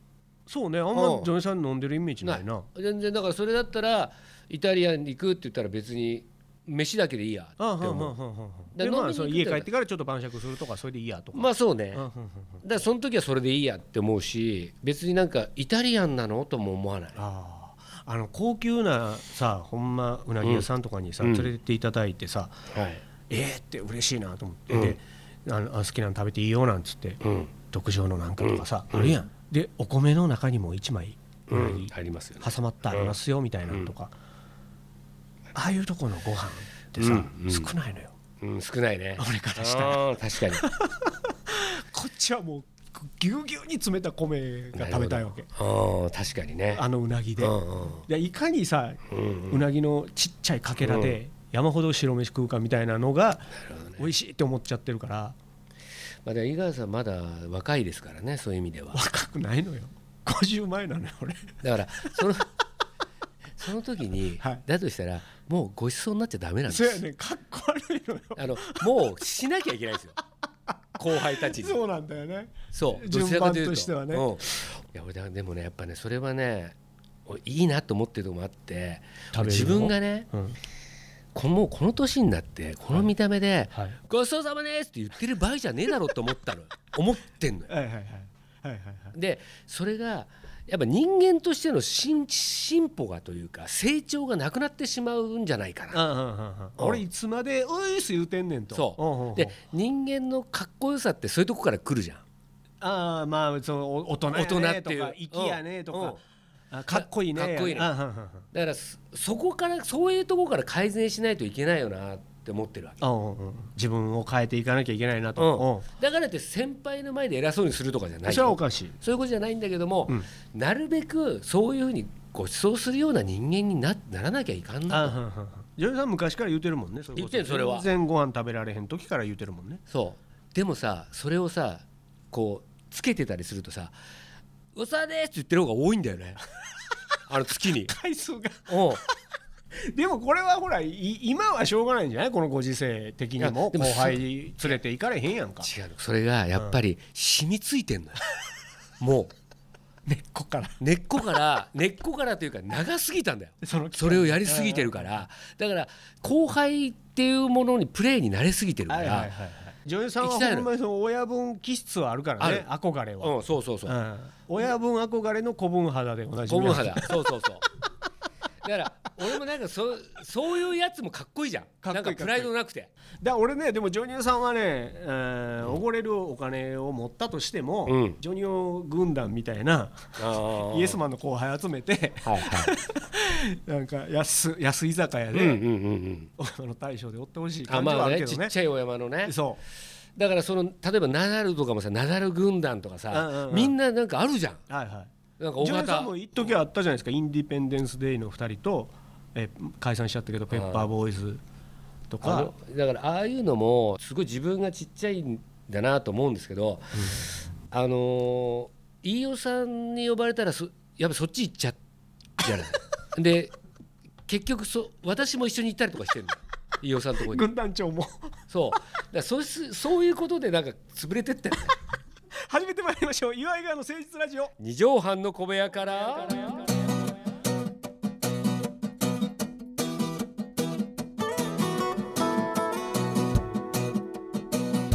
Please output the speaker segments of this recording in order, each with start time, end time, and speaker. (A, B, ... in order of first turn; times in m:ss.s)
0:00.5-0:02.7 A
0:00.9-0:01.3 B
0:02.2-0:08.2 B
0:07.6-0:12.6 A
0:08.7-0:09.7 B
0:11.3-0:12.0 B
0:12.6-0:17.2 B
0:17.2-0:22.6 A
0:21.2-0:21.5 B
0:22.7-0:23.0 B
0:23.3-0:27.2 A
0:24.7-0:25.0 B
0:27.2-0:27.5 B
0:27.7-0:34.1 A
0:28.4-0:29.2 B
0:31.5-0:33.2 B
0:35.6-0:38.1 A
0:37.0-0:37.7 B
0:38.4-0:40.6 B
0:39.2-0:45.5 A
0:44.7-0:46.8 B
0:46.7-0:55.4 A
0:47.4-0:48.1 B
0:49.1-0:49.6 B
0:50.8-0:51.2 B
0:53.6-0:54.1 B
0:56.2-0:59.0 B
0:58.9-1:02.2 A
1:01.6-1:02.5 B
1:03.6-1:07.0 B
1:06.7-1:08.9 A
1:08.4-1:10.2 B
1:10.7-1:14.7 A
1:11.0-1:11.8 B
1:12.7-1:20.3 B
1:19.3-1:20.6 A
1:21.3-1:27.7 B
1:27.7-1:29.1 A
1:29.1-1:36.1 B
1:35.9-1:39.6 A
1:36.8-1:37.0 B
1:38.7-1:42.2 B
1:42.8-1:46.2 A
1:44.3-1:46.2 B
1:46.7-1:48.5 A
1:46.9-1:47.9 B
1:48.5-1:53.0 B
1:53.0-1:55.8 A
1:55.4-2:05.2 B
1:58.3-1:59.0 A
2:04.9-2:09.8 A
2:07.2-2:07.9 B
2:09.9-2:14.0 B
2:14.8-2:16.4 B
2:17.3-2:18.0 B
2:17.8-2:19.0 A
2:18.7-2:19.0 B
2:19.8-2:25.7 A
2:23.4-2:24.8 B
2:25.6-2:28.2 B
2:29.0-2:29.3 B
2:30.1-2:30.8 A
2:30.8-2:39.3 B
2:33.6-2:35.2 A
2:38.9-2:43.3 A
2:40.2-2:40.7 B
2:42.4-2:42.7 B
2:43.2-2:44.0 B
2:43.8-2:47.3 A
2:46.4-2:47.7 B
2:48.6-2:52.9 B
2:51.8-2:52.5 A
2:53.2-3:05.6 A
2:57.9-2:58.2 B
3:00.2-3:01.0 B
3:02.2-3:02.7 B
3:05.3-3:06.3 B
3:06.4-3:08.6 A
3:07.7-3:09.4 B
3:09.2-3:09.6 A
3:10.2-3:14.6 B
3:13.1-3:13.8 A
3:14.7-3:21.4 A
3:15.4-3:16.5 B
3:20.5-3:20.9 B
3:22.1-3:22.5 A
3:22.2-3:27.1 B
3:27.0-3:27.3 A
3:27.7-3:31.8 B
3:32.4-3:33.5 B
3:34.3-3:37.5 B
3:37.2-3:38.4 A
3:38.5-3:41.8 B
3:42.5-3:44.5 A
3:44.6-3:46.7 B